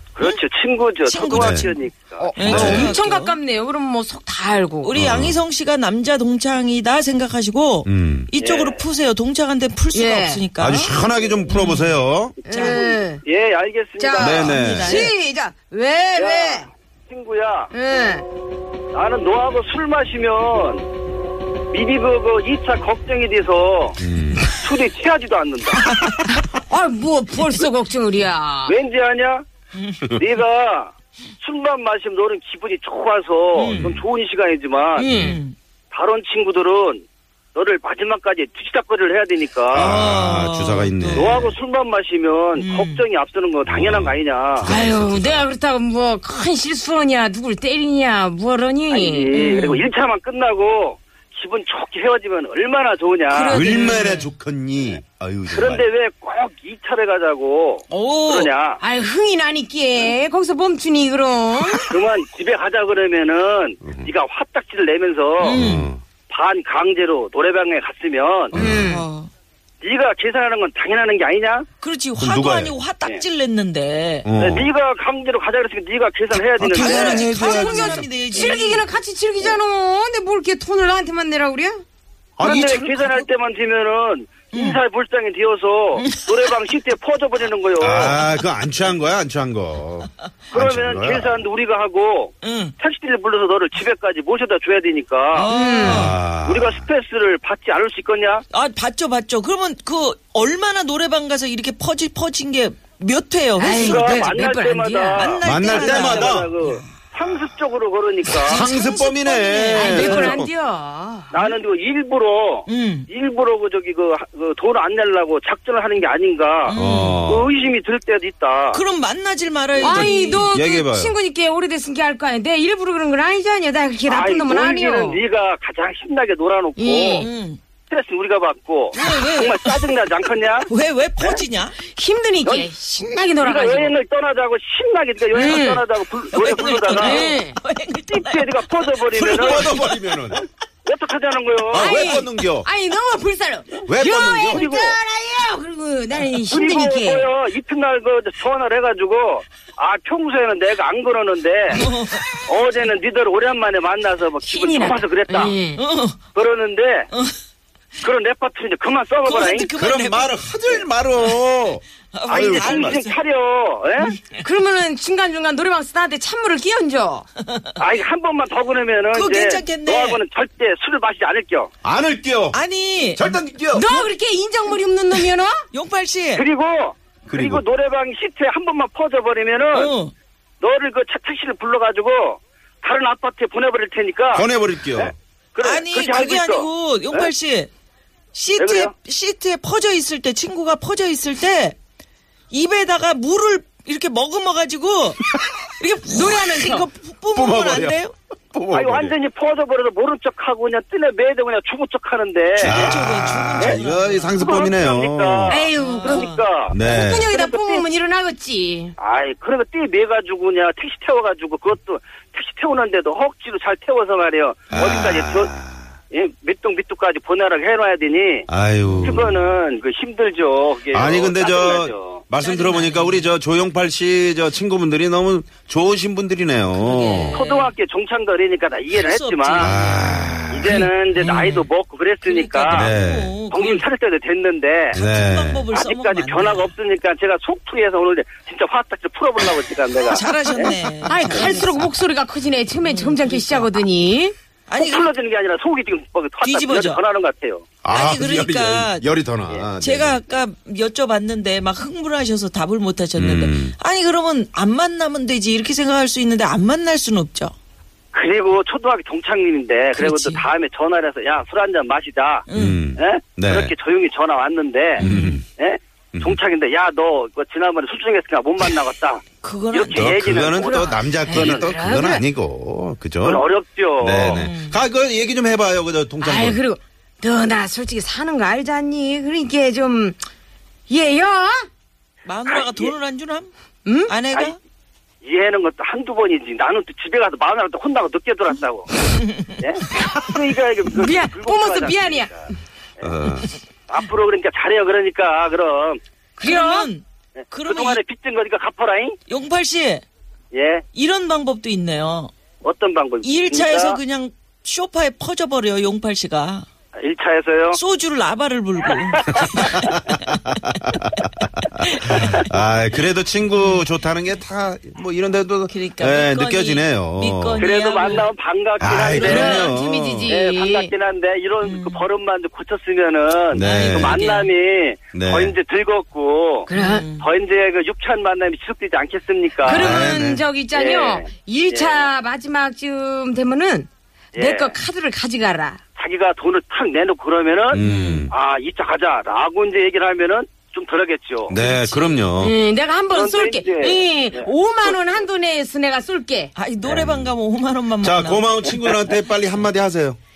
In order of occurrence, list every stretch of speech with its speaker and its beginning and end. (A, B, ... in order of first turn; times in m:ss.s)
0:00.2-0:02.4 A
0:01.1-0:03.4 B
0:01.3-0:01.7 C
0:02.2-0:05.0 D
0:02.4-0:03.0 C
0:04.8-0:10.9 B
0:04.9-0:05.4 C
0:07.8-0:08.3 C
0:08.4-0:08.8 A
0:09.9-0:10.5 D
0:10.6-0:12.4 C
0:11.5-0:12.0 B
0:12.4-0:13.2 D
0:12.5-0:12.8 B
0:12.5-0:14.6 A
0:14.0-0:16.7 D
0:14.2-0:15.1 C
0:14.2-0:15.1 B
0:16.2-0:17.7 A
0:17.7-0:18.3 D
0:18.9-0:20.9 A
0:21.7-0:26.0 A
0:24.0-0:24.5 C
0:26.0-0:28.8 D
0:28.7-0:29.4 A
0:29.8-0:30.1 B
0:30.1-0:35.1 A
0:33.5-0:34.0 B
0:33.7-0:34.0 C
0:35.0-0:35.4 D
0:35.1-0:35.4 C
0:35.1-0:35.6 B
0:35.9-0:40.0 A
0:39.7-0:41.5 C
0:39.8-0:41.6 B
0:41.1-0:44.7 A
0:42.6-0:43.1 B
0:43.6-0:45.5 C
0:44.6-0:49.8 D
0:48.9-0:53.6 A
0:49.3-0:49.7 B
0:53.3-0:54.2 D
0:53.3-0:54.2 B
0:53.5-0:55.9 C
0:55.5-0:58.8 A
0:57.9-0:58.3 D
0:58.0-0:58.5 B
0:58.8-1:01.9 D
1:01.9-1:05.6 A
1:03.8-1:04.1 C
1:05.4-1:05.9 B
1:05.4-1:06.0 C
1:06.3-1:08.6 A
1:08.5-1:09.1 D
1:08.5-1:08.9 C
1:08.7-1:09.3 B
1:09.8-1:11.7 A
1:11.8-1:14.3 B
1:12.2-1:12.8 C
1:14.2-1:14.7 C
1:14.4-1:17.3 A
1:16.6-1:18.9 B
1:16.6-1:18.1 C
1:17.2-1:21.8 D
1:22.4-1:23.0 C
1:22.4-1:28.2 A
1:22.4-1:23.3 B
1:24.5-1:24.8 B
1:26.0-1:26.5 B
1:27.8-1:31.4 C
1:27.9-1:28.2 B
1:30.5-1:35.5 A
1:32.4-1:32.7 B
1:35.3-1:36.2 B
1:35.4-1:36.2 D
1:35.8-1:36.9 C
1:36.1-1:38.4 A
1:38.5-1:44.2 B
1:43.6-1:45.3 D
1:43.7-1:48.7 A
1:45.1-1:47.1 B
1:45.4-1:46.5 C
1:48.3-1:50.4 B
1:48.4-1:50.5 C
1:49.7-1:51.4 D
1:51.3-1:58.8 A
1:52.7-1:53.1 B
1:56.7-1:57.3 B
1:56.7-1:57.5 C
1:58.7-2:00.5 B
1:59.8-2:00.1 A
1:59.8-2:05.2 D
1:59.9-2:01.1 C
2:04.1-2:07.3 A
2:06.8-2:07.3 D
2:07.2-2:07.6 B
2:07.9-2:11.4 A
2:08.9-2:11.8 B
2:11.8-2:14.0 D
2:13.4-2:17.3 A
2:15.3-2:15.8 D
2:16.3-2:20.2 B
2:16.9-2:17.6 D
2:18.1-2:19.8 A
2:19.2-2:20.4 C
2:20.3-2:22.0 A
2:21.7-2:22.7 C
2:21.7-2:27.3 D
2:23.9-2:24.6 C
2:24.5-2:25.0 A
2:26.5-2:31.8 A
2:31.7-2:32.3 B
2:32.5-2:35.6 A
2:34.4-2:35.8 D
2:35.3-2:36.3 B
2:36.3-2:37.1 A
2:38.0-2:39.7 A
2:39.2-2:41.3 B
2:39.8-2:43.0 C
2:42.1-2:43.2 B
2:42.3-2:44.1 A
2:44.3-2:47.3 D
2:47.8-2:51.7 A
2:49.1-2:50.2 B
2:51.8-2:52.6 C
2:52.5-2:53.4 B
2:53.1-2:53.9 C
2:53.7-2:55.5 D
2:55.7-2:56.4 B
2:56.3-2:59.9 A
2:57.3-2:57.6 C
2:59.7-3:00.1 B
3:00.6-3:07.3 A
3:04.3-3:05.2 C
3:05.6-3:07.7 B
3:08.3-3:11.8 B
3:08.6-3:08.9 A
3:12.5-3:15.2 B
3:15.8-3:16.9 D
3:16.1-3:18.1 B
3:17.3-3:18.0 C
3:18.5-3:19.2 C
3:18.7-3:22.9 A
3:22.6-3:24.7 B
3:22.6-3:25.6 C
3:23.6-3:27.9 A
3:25.5-3:29.0 D
3:25.8-3:26.8 B
3:26.7-3:27.3 C
3:29.0-3:35.5 A
3:34.7-3:35.9 C
3:36.1-3:38.5 A
3:38.5-3:39.5 C
3:38.8-3:39.2 B
3:39.0-3:42.2 A
3:40.9-3:47.4 C
3:42.4-3:43.3 B
3:46.7-3:47.7 B
3:47.3-3:49.8 A
3:48.9-3:51.7 B
3:49.6-3:50.8 C
3:50.5-3:53.0 A
3:52.2-3:53.9 B
3:52.7-3:53.4 C
3:53.5-3:55.0 A
3:54.9-3:56.8 B
3:54.9-3:55.7 C
3:55.7-4:01.6 A
4:00.0-4:01.8 B
4:01.1-4:04.4 D
4:02.8-4:03.7 B
4:04.7-4:05.1 B
4:04.8-4:07.7 A
4:06.4-4:07.0 B
4:07.8-4:10.2 C
4:07.9-4:09.1 B
4:09.7-4:17.5 B
4:13.2-4:13.8 C
4:18.1-4:31.7 A
4:19.9-4:20.5 B
4:22.5-4:22.9 B
4:22.5-4:23.7 C
4:25.0-4:25.4 B
4:25.0-4:25.4 C
4:29.4-4:30.3 B
4:30.0-4:33.5 C
4:30.5-4:32.2 D
4:33.2-4:34.5 A
4:34.0-4:36.6 C
4:34.3-4:34.8 B
4:36.2-4:40.2 D
4:40.9-4:41.7 D
4:42.2-4:43.5 B
4:42.5-4:42.9 A
4:43.8-4:44.2 D
4:44.1-4:44.6 B
4:45.2-4:49.0 A
4:49.2-4:49.5 B
4:49.6-4:52.4 A
4:49.9-4:50.3 D
4:50.9-4:52.5 D
4:53.0-4:53.5 C
4:53.9-4:56.0 A
4:56.4-4:56.9 D
4:56.4-4:58.0 B
4:57.4-4:59.2 A
4:59.3-5:00.0 B
5:00.5-5:00.8 A
5:00.9-5:02.3 B
5:02.6-5:04.0 A
5:03.2-5:06.7 B
5:07.0-5:07.8 A
5:07.7-5:11.0 B
5:09.8-5:17.6 C
5:12.0-5:12.3 B
5:13.6-5:13.8 B
5:15.7-5:18.3 B
5:17.6-5:19.7 A
5:18.8-5:20.3 C
5:18.9-5:20.9 D
5:19.2-5:19.7 B
5:20.3-5:30.1 A
5:21.6-5:22.0 B
5:23.5-5:24.3 C
5:23.6-5:24.5 B
5:25.1-5:25.6 C
5:26.7-5:27.0 D
5:26.7-5:27.3 B
5:29.6-5:35.8 D
5:29.6-5:30.4 C
5:30.7-5:32.1 A
5:34.4-5:34.8 A
5:36.0-5:41.6 A
5:37.7-5:38.3 C
5:37.8-5:38.3 B
5:41.5-5:42.6 C
5:41.6-5:46.5 D
5:43.1-5:44.9 A
5:46.6-5:48.8 B
5:46.8-5:47.4 C
5:48.0-5:50.2 C
5:48.8-5:49.1 A